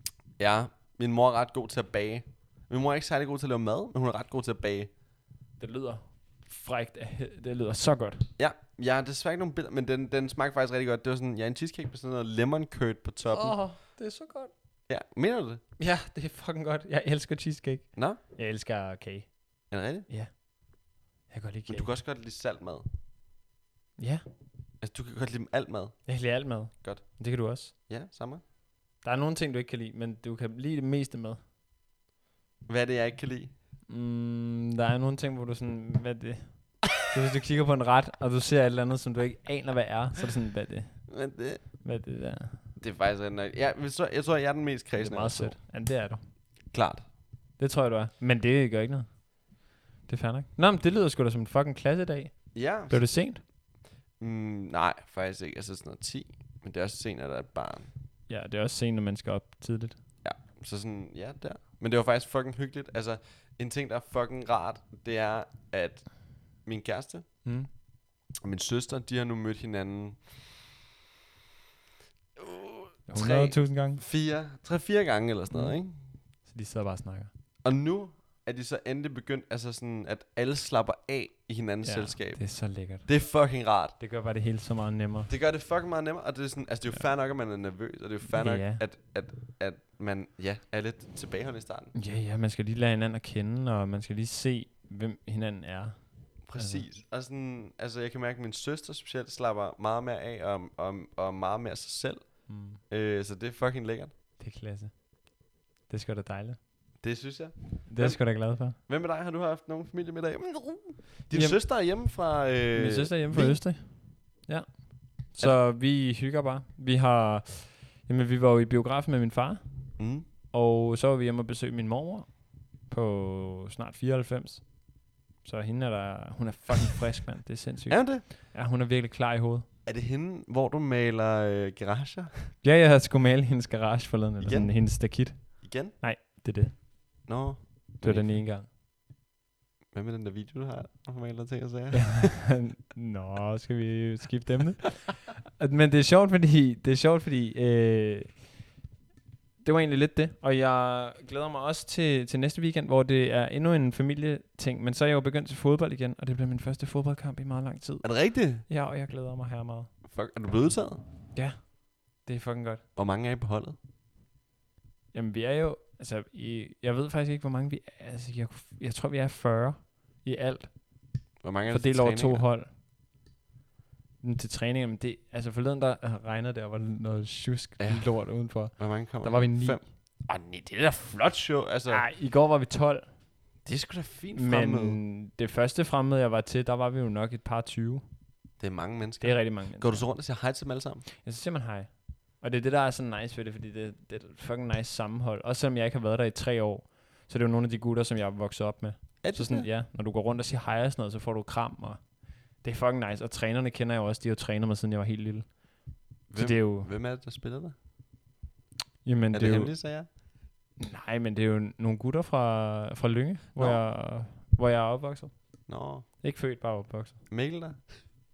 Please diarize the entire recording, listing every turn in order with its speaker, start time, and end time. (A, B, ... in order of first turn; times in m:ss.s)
0:00.4-0:04.9 A
0:05.6-0:08.3 B
0:08.4-0:13.6 A
0:13.2-0:14.5 B
0:14.9-0:15.6 A
0:15.8-0:19.6 B
0:17.9-0:18.2 A
0:19.7-0:20.1 A
0:20.1-0:20.3 B
0:21.3-0:21.9 B
0:21.7-0:22.8 A
0:24.0-0:24.2 B
0:24.8-0:26.0 A
0:26.1-0:27.7 B
0:27.9-0:28.4 A
0:29.0-0:31.4 B
0:32.6-0:33.5 A
0:33.9-0:41.1 B
0:41.1-0:41.6 A
0:41.8-0:42.6 B
0:42.8-0:45.6 A
0:45.0-0:46.2 B
0:46.7-0:47.0 A
0:47.6-0:49.1 B
0:50.1-0:53.4 B
0:52.5-0:53.0 A
0:54.2-0:57.9 A
0:58.3-1:00.0 B
1:00.2-1:07.2 A
1:08.4-1:10.2 A
1:12.4-1:16.0 A
1:13.1-1:14.0 B
1:16.4-1:17.3 B
1:17.6-1:23.9 A
1:21.8-1:23.1 B
1:24.0-1:25.3 B
1:25.3-1:31.9 A
1:28.3-1:28.8 B
1:31.9-1:36.8 B
1:36.4-1:44.1 A
1:42.5-1:42.8 B
1:44.4-1:45.1 B
1:45.9-1:46.6 B
1:47.0-1:53.6 A
1:47.9-1:48.8 B
1:51.3-1:51.6 B
1:52.7-1:59.6 B
2:00.0-2:00.2 A
2:00.5-2:02.3 B
2:02.8-2:04.7 B
2:05.4-2:09.6 B
2:07.9-2:08.2 A
2:09.8-2:12.5 A
2:12.6-2:16.8 B
2:14.4-2:14.9 A
2:15.6-2:15.9 A
2:17.2-2:18.4 A
2:18.0-2:18.7 B
2:19.9-2:22.5 A
2:21.9-2:28.4 B
2:29.6-2:39.9 B
2:38.0-2:38.6 A
2:40.1-2:41.0 A
2:41.3-2:42.8 B
2:43.0-2:43.8 A
2:45.1-2:51.0 B
2:51.4-2:52.4 A
2:51.6-2:52.7 B
2:54.2-2:59.8 B
2:57.8-3:02.0 A
3:01.9-3:03.1 B
3:03.6-3:05.0 A
3:04.3-3:08.0 B
3:08.6-3:11.0 A
3:09.2-3:10.1 B
3:11.2-3:25.6 B
3:19.2-3:19.7 A
3:26.3-3:26.9 B
3:26.3-3:27.7 A
3:29.0-3:29.7 B
3:29.3-3:30.1 A
3:30.8-3:35.3 B
3:33.6-3:33.8 A
3:35.7-3:36.0 A
3:36.2-3:37.2 B
3:37.3-3:38.0 A